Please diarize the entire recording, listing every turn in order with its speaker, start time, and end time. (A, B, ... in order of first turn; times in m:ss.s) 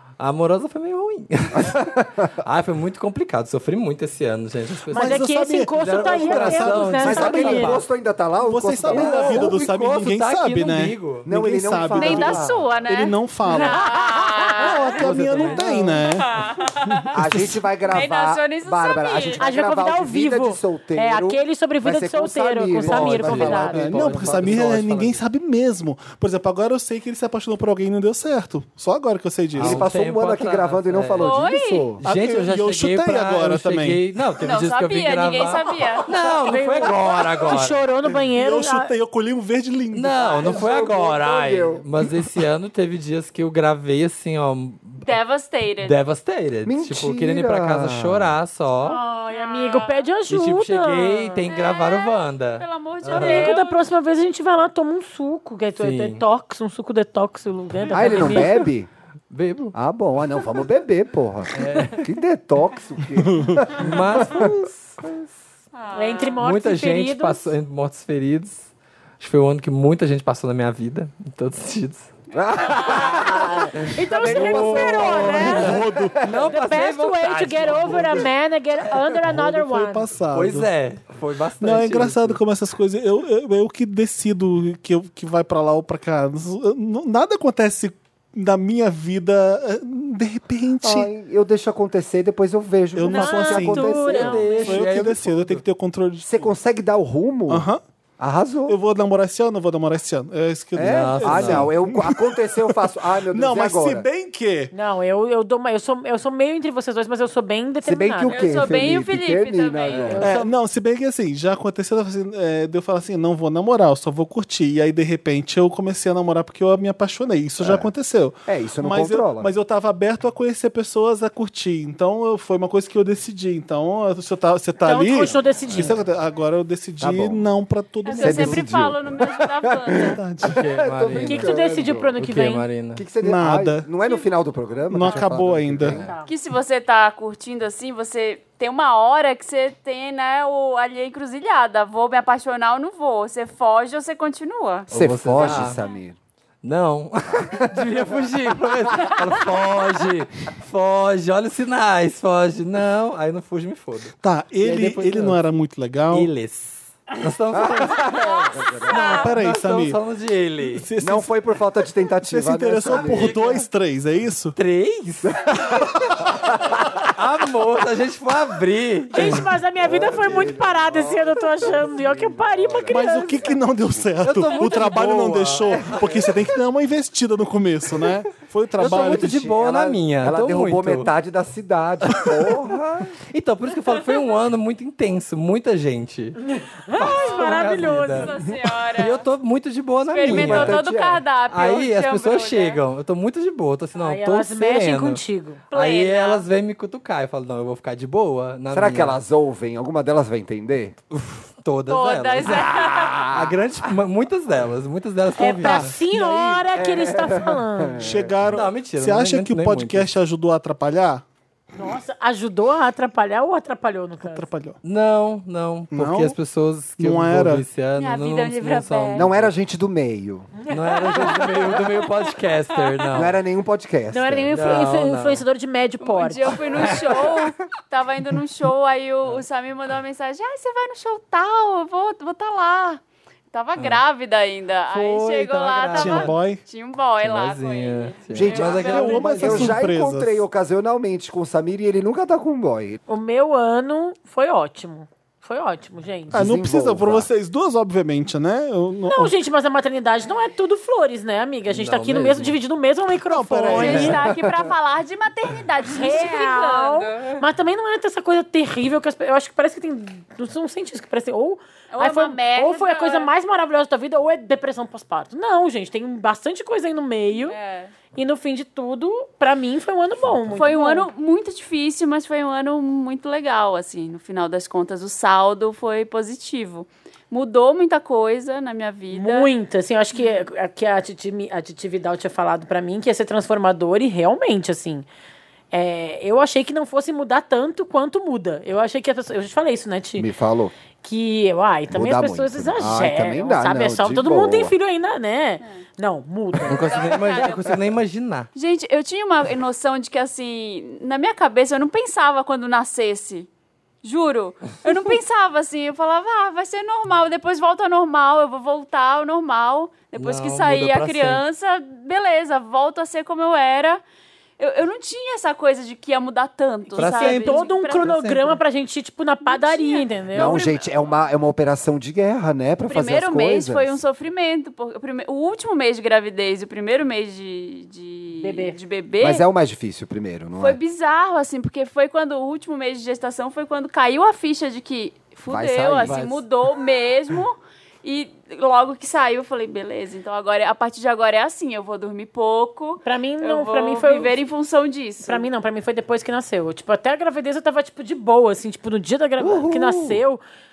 0:00.2-0:05.2 A
0:01.6-0:02.3 B
0:04.9-0:07.7 C
0:04.9-0:07.8 D
0:05.8-0:07.8 A
0:07.0-0:09.6 B
0:08.4-0:13.8 C
0:08.8-0:11.2 A
0:11.2-0:12.5 B
0:11.9-0:17.1 E
0:14.5-0:16.3 C
0:14.8-0:16.1 A
0:16.9-0:17.6 C
0:17.1-0:24.8 B
0:17.9-0:19.4 E
0:19.4-0:23.8 D
0:22.8-0:25.2 A
0:23.2-0:29.9 C
0:29.5-0:31.4 A
0:29.6-0:32.0 B
0:31.2-0:31.9 E
0:32.0-0:37.8 A
0:32.0-0:34.0 C
0:34.4-0:36.1 E
0:36.4-0:38.9 D
0:38.0-0:40.5 C
0:39.9-0:45.1 A
0:40.4-0:41.9 B
0:45.0-0:45.9 E
0:45.8-0:49.0 A
0:46.6-0:48.4 B
0:48.8-0:51.5 D
0:48.9-0:50.0 E
0:50.3-0:53.5 A
0:51.5-0:53.9 E
0:53.1-0:58.6 D
0:55.8-0:56.2 A
0:57.9-0:58.9 B
0:58.0-0:58.6 A
0:59.3-0:59.7 A
0:59.7-1:04.7 B
1:01.5-1:02.1 A
1:03.1-1:03.7 C
1:03.7-1:05.3 A
1:05.7-1:06.4 E
1:05.9-1:07.5 D
1:06.4-1:12.1 A
1:12.3-1:16.5 B
1:12.6-1:13.3 E
1:13.2-1:15.8 D
1:14.2-1:18.3 A
1:15.3-1:16.3 C
1:16.4-1:20.1 D
1:19.2-1:20.7 C
1:20.3-1:22.4 A
1:21.6-1:31.1 C
1:30.8-1:34.4 B
1:32.9-1:36.5 C
1:33.0-1:34.9 D
1:34.1-1:35.6 A
1:36.2-1:37.6 B
1:37.5-1:37.8 C
1:38.2-1:38.8 B
1:38.7-1:44.7 C
1:40.7-1:44.0 B
1:40.9-1:41.7 A
1:44.7-1:48.4 D
1:47.8-1:50.4 B
1:48.3-1:50.3 E
1:49.9-1:50.1 A
1:50.1-1:50.5 D
1:50.2-2:08.7 C
1:57.6-1:57.9 B
1:58.5-1:59.5 B
2:04.8-2:06.0 D
2:05.6-2:05.9 B
2:07.0-2:07.4 B
2:08.0-2:10.2 E
2:08.2-2:12.2 B
2:10.1-2:10.6 C
2:10.4-2:13.0 A
2:11.1-2:12.7 D
2:13.0-2:16.1 B
2:13.2-2:13.9 C
2:14.0-2:14.3 E
2:14.9-2:16.0 C
2:15.8-2:16.1 A
2:15.9-2:16.3 D
2:16.2-2:24.9 E
2:24.9-2:25.8 A
2:24.9-2:26.2 B
2:25.4-2:25.8 E
2:26.6-2:35.4 A
2:27.5-2:27.9 B
2:34.2-2:36.3 C
2:36.1-2:40.9 A
2:37.5-2:39.1 B
2:38.5-2:39.2 E
2:38.9-2:40.0 C
2:40.6-2:41.3 C
2:41.0-2:43.4 B
2:42.3-2:44.6 C
2:42.9-2:43.6 A
2:44.6-2:46.3 A
2:45.2-2:46.8 B
2:45.7-2:46.2 C
2:47.0-2:49.4 A
2:49.1-2:53.4 D
2:49.8-2:53.5 B
2:52.9-2:59.4 C
2:54.2-2:56.2 A
2:55.7-2:56.3 B
2:58.8-3:01.1 A
2:58.8-3:03.1 B
3:03.3-3:06.4 A
3:06.4-3:08.4 D
3:06.9-3:10.8 A
3:07.1-3:09.2 E
3:10.1-3:12.8 E
3:10.2-3:11.2 B
3:11.4-3:15.2 A
3:14.0-3:15.6 D
3:15.7-3:16.4 E
3:15.7-3:19.2 A
3:18.7-3:21.0 B
3:21.1-3:25.9 A
3:21.9-3:23.3 E
3:23.0-3:23.6 B
3:25.4-3:28.1 D
3:25.6-3:26.7 C
3:26.7-3:28.4 B
3:28.0-3:31.2 C
3:28.4-3:30.1 A
3:31.8-3:34.5 D
3:34.2-3:34.8 C
3:34.8-3:39.5 A
3:35.9-3:36.4 C
3:37.0-3:37.6 C
3:38.0-3:39.2 E
3:39.1-3:40.5 B
3:40.6-3:41.5 D
3:40.7-3:43.4 A
3:43.1-3:44.6 B
3:44.1-3:46.6 D
3:44.5-3:45.4 A
3:46.0-3:53.0 E
3:46.7-3:47.4 A
3:53.5-3:59.7 E
3:53.8-3:54.0 A
3:54.9-3:56.3 A
3:55.9-3:56.6 C
3:57.2-3:59.8 A
3:58.3-4:03.0 B
3:58.6-4:00.4 C
4:03.1-4:06.5 D
4:06.3-4:07.3 B
4:06.3-4:09.4 C
4:09.0-4:14.2 D
4:11.7-4:12.6 A
4:13.3-4:14.2 C
4:13.7-4:17.4 E
4:14.0-4:14.7 B
4:15.9-4:27.6 D
4:21.9-4:23.3 E
4:27.4-4:27.9 E
4:28.1-4:31.1 D
4:30.6-4:39.5 E
4:39.1-4:45.0 D
4:45.7-4:50.3 D
4:50.2-4:50.7 B
4:51.0-4:57.0 D
4:51.9-4:54.7 B
4:56.6-4:58.5 A
4:56.8-4:57.9 E
4:58.5-5:03.5 E
5:04.0-5:14.0 E
5:10.2-5:11.4 A
5:14.6-5:18.1 E
5:17.0-5:18.6 A
5:17.0-5:20.6 D
5:19.4-5:21.2 E
5:20.3-5:24.0 B
5:22.9-5:29.4 E
5:28.4-5:28.8 D
5:29.2-5:30.8 B
5:30.6-5:45.4 E
5:35.5-5:36.2 B
5:36.0-5:36.4 A
5:43.0-5:44.4 D
5:45.2-5:50.4 D
5:49.4-5:50.2 B